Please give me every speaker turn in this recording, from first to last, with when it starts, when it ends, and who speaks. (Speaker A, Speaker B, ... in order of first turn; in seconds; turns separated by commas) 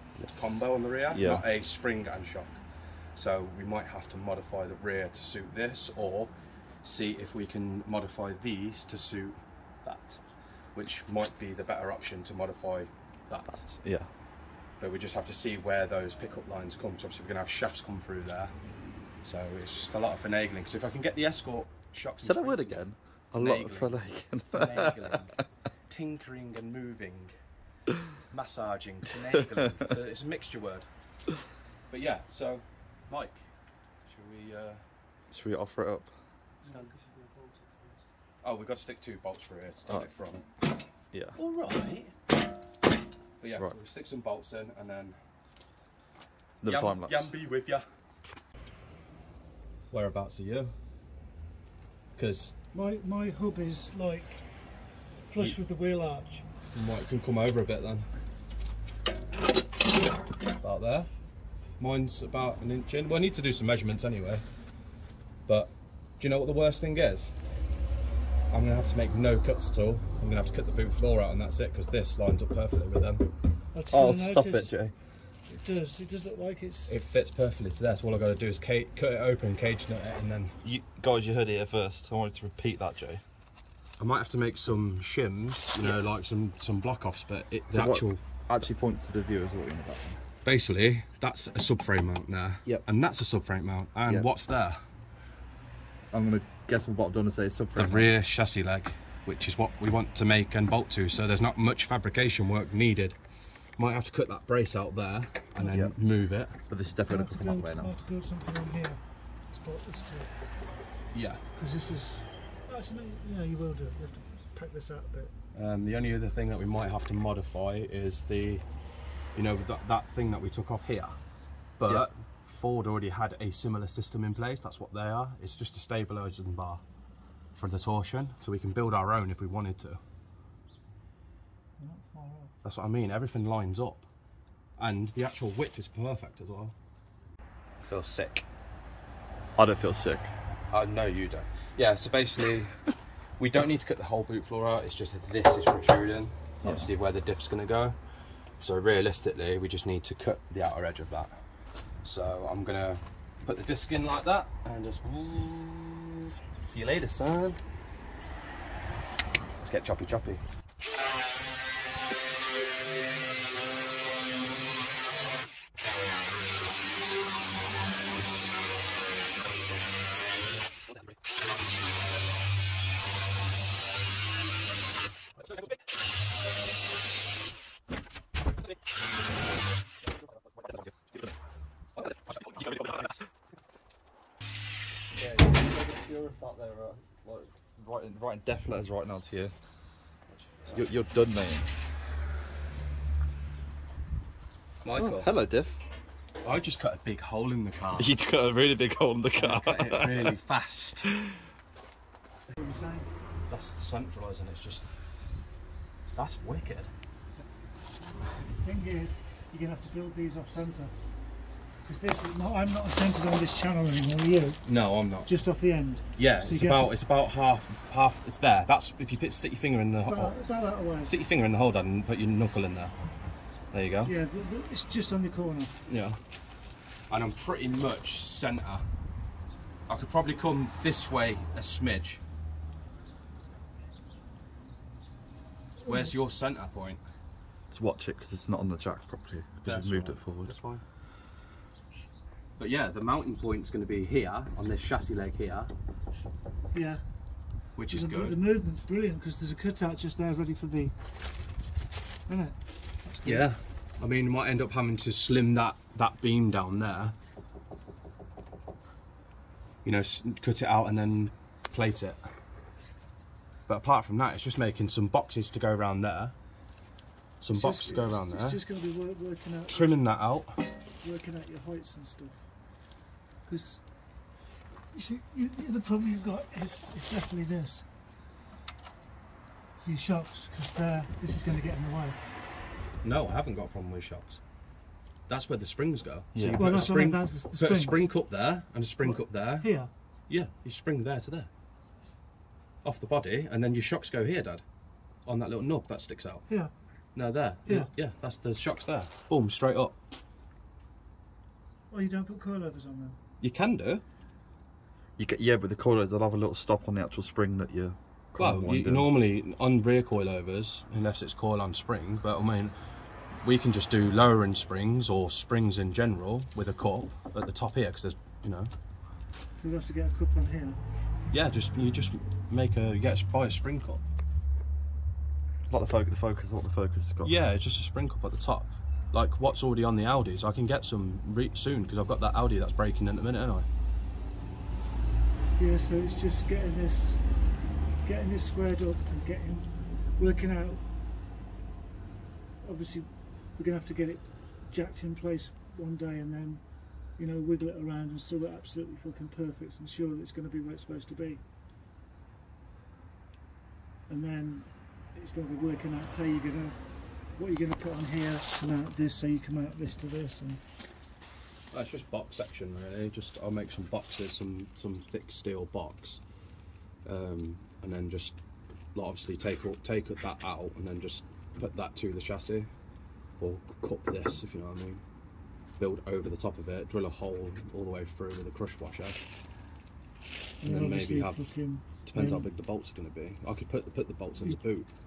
Speaker A: 0.2-1.4, Speaker B: 0.3-2.6, Speaker B: 3.2-6.3, Speaker B: 6.8-10.2, Speaker B: 10.7-13.7, Speaker A: 13.5-14.1, Speaker B: 14.8-18.5, Speaker B: 19.2-24.0, Speaker A: 22.2-25.4, Speaker B: 24.5-25.3, Speaker B: 25.9-27.3, Speaker B: 28.3-30.9, Speaker B: 31.9-33.5, Speaker B: 34.1-34.8, Speaker A: 35.3-36.1, Speaker C: 36.6-38.1, Speaker B: 36.6-36.9, Speaker B: 38.4-40.5, Speaker A: 41.1-41.4, Speaker B: 41.4-42.1, Speaker B: 43.4-45.2, Speaker A: 46.6-47.3, Speaker B: 46.7-47.9, Speaker B: 49.9-50.8, Speaker B: 52.2-52.6, Speaker C: 52.7-54.4, Speaker C: 55.2-56.5, Speaker B: 56.7-58.1, Speaker B: 60.6-61.1, Speaker B: 61.8-64.5, Speaker B: 65.5-67.3, Speaker B: 68.5-73.3, Speaker C: 73.7-74.7, Speaker A: 73.9-74.9, Speaker C: 75.5-77.0, Speaker B: 76.9-80.6, Speaker A: 80.6-83.2, Speaker B: 84.0-88.2, Speaker A: 87.7-90.2, Speaker B: 90.4-94.8, Speaker A: 96.1-98.1, Speaker B: 97.8-103.2, Speaker B: 103.8-106.6, Speaker A: 105.6-105.9, Speaker A: 106.7-108.0, Speaker C: 107.1-110.3, Speaker B: 111.1-111.4, Speaker C: 111.6-115.3, Speaker B: 115.5-118.6, Speaker B: 119.3-121.2, Speaker B: 121.8-126.8, Speaker B: 127.6-130.0, Speaker C: 131.8-132.5, Speaker B: 132.6-134.1, Speaker B: 134.8-136.8, Speaker B: 137.8-138.5, Speaker A: 139.6-140.3, Speaker B: 140.7-142.8, Speaker B: 143.4-148.0, Speaker A: 146.6-146.9, Speaker B: 148.6-151.4, Speaker B: 152.0-157.6, Speaker B: 159.6-160.4, Speaker A: 182.4-183.2, Speaker A: 185.2-189.5, Speaker B: 190.3-190.9, Speaker A: 190.7-191.7, Speaker B: 194.8-195.3, Speaker A: 195.0-195.8, Speaker B: 196.4-198.1, Speaker A: 198.0-200.3, Speaker B: 199.3-201.2, Speaker C: 202.6-203.1, Speaker B: 203.5-204.9, Speaker B: 206.2-206.9, Speaker C: 208.5-210.9, Speaker C: 211.8-214.7, Speaker B: 214.7-215.3, Speaker C: 215.2-216.9, Speaker B: 216.2-220.3, Speaker C: 220.1-221.1, Speaker B: 221.0-222.9, Speaker B: 223.7-224.1, Speaker C: 224.1-225.8, Speaker B: 225.9-226.2, Speaker B: 227.1-228.9, Speaker B: 229.9-232.2, Speaker C: 235.8-236.1, Speaker B: 235.8-237.0, Speaker A: 237.7-240.6, Speaker B: 239.7-240.8, Speaker B: 242.6-245.7, Speaker C: 246.7-247.0, Speaker B: 247.8-248.4, Speaker C: 247.9-250.9, Speaker C: 252.3-253.5, Speaker B: 253.2-257.1, Speaker B: 259.8-262.2, Speaker B: 263.7-266.4, Speaker B: 267.4-268.6, Speaker C: 267.5-270.0, Speaker B: 269.7-270.6, Speaker C: 271.0-272.4, Speaker C: 273.5-273.8, Speaker C: 274.9-277.9, Speaker C: 279.8-282.2, Speaker B: 283.0-284.4, Speaker B: 285.3-289.7, Speaker A: 286.4-286.9, Speaker C: 286.6-288.1, Speaker C: 289.0-289.9, Speaker B: 290.3-291.5, Speaker B: 292.8-294.6, Speaker B: 295.3-296.5, Speaker B: 297.1-300.0, Speaker C: 301.9-303.2, Speaker B: 303.4-304.0, Speaker A: 305.2-309.1, Speaker B: 308.4-312.8, Speaker B: 313.4-318.7, Speaker C: 319.6-320.8, Speaker B: 321.3-324.0, Speaker A: 325.7-327.3, Speaker B: 327.2-333.7, Speaker C: 335.6-337.2, Speaker C: 338.0-340.8, Speaker C: 342.6-346.6, Speaker C: 347.2-351.4, Speaker C: 354.1-356.8, Speaker C: 357.4-360.6, Speaker B: 361.7-366.2, Speaker B: 367.1-368.4, Speaker B: 368.9-372.7, Speaker B: 373.4-375.0, Speaker B: 375.8-379.2, Speaker C: 380.6-382.4, Speaker B: 380.6-384.9